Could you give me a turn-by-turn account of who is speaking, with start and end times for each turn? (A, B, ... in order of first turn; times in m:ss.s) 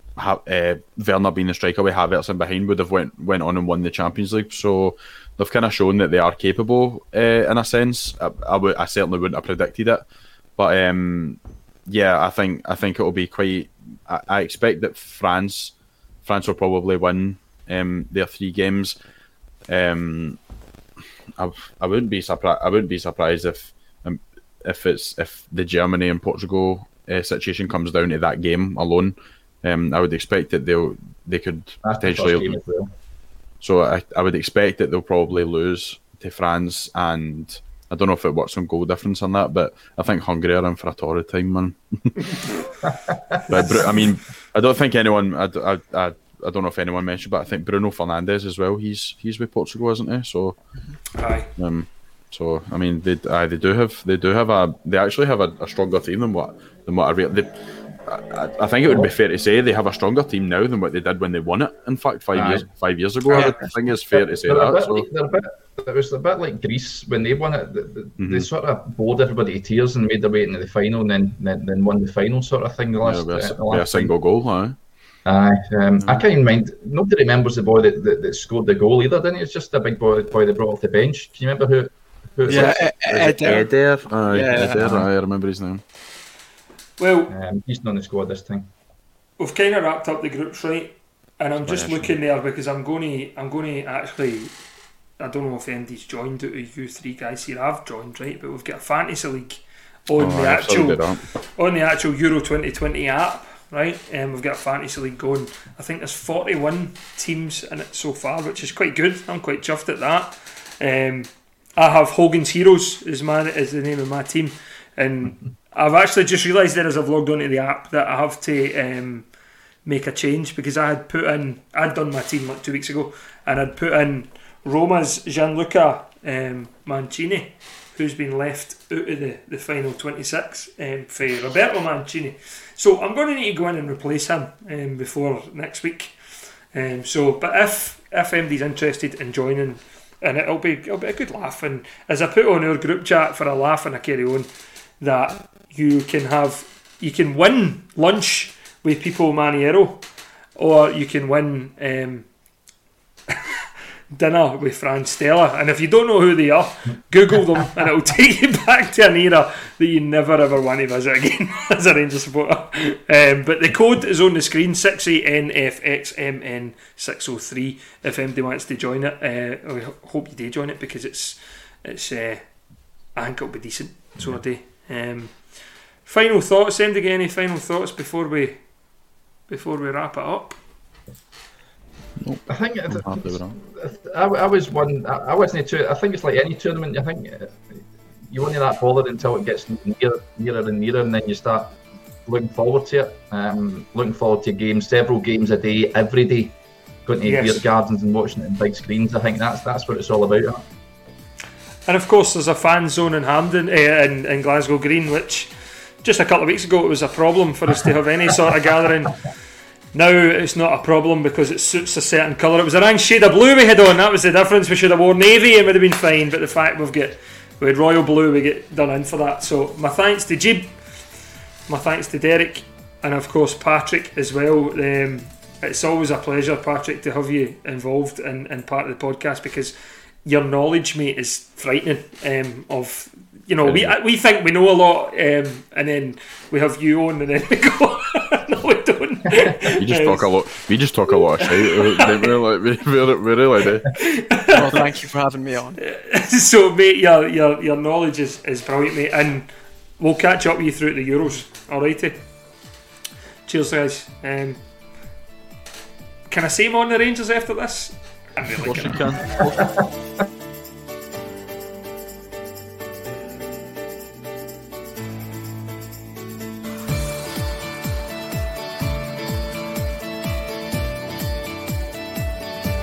0:00.2-0:10.0 A
0:10.6-0:15.7 A
0:16.3-0:19.0 A
0:19.7-0:20.4 A
0:21.4-0:32.6 A
0:31.8-0:32.9 B
0:33.6-0:42.4 A
0:42.9-0:43.8 B
0:43.5-0:50.6 A
0:43.5-0:43.8 C
0:51.1-0:51.5 C
0:51.6-0:57.5 A
0:58.0-1:05.1 A
0:58.9-0:59.1 B
1:02.3-1:02.6 B
1:03.3-1:03.7 D
1:04.1-1:14.1 B
1:08.2-1:08.5 A
1:13.0-1:14.8 A
1:15.3-1:22.8 B
1:22.4-1:25.8 A
1:22.5-1:23.7 D
1:24.3-1:24.8 D
1:24.7-1:25.1 B
1:27.0-1:27.3 C
1:27.3-1:28.7 B
1:29.4-1:34.5 C
1:31.6-1:32.1 A
1:35.2-1:41.0 C
1:40.2-1:41.2 A
1:41.6-1:59.3 C
1:59.8-2:16.1 C
2:16.7-2:24.5 C
2:25.0-2:30.0 C
2:30.6-2:32.3 C
2:34.1-2:52.4 C
2:53.1-2:55.5 C
2:56.0-2:58.6 C
2:59.5-3:00.6 C
3:02.2-3:03.6 A
3:02.5-3:07.7 B
3:08.3-3:20.6 B
3:17.3-3:17.6 C
3:21.9-3:25.5 C
3:26.0-3:29.2 C
3:29.9-3:40.7 C
3:41.7-4:00.3 C
3:53.6-3:53.9 A
3:59.7-4:03.9 A
4:01.4-4:02.3 C
4:04.0-4:04.6 C
4:04.5-4:05.8 D
4:05.8-4:12.2 C
4:13.4-4:14.6 C
4:16.3-4:19.0 C
4:18.6-4:19.7 A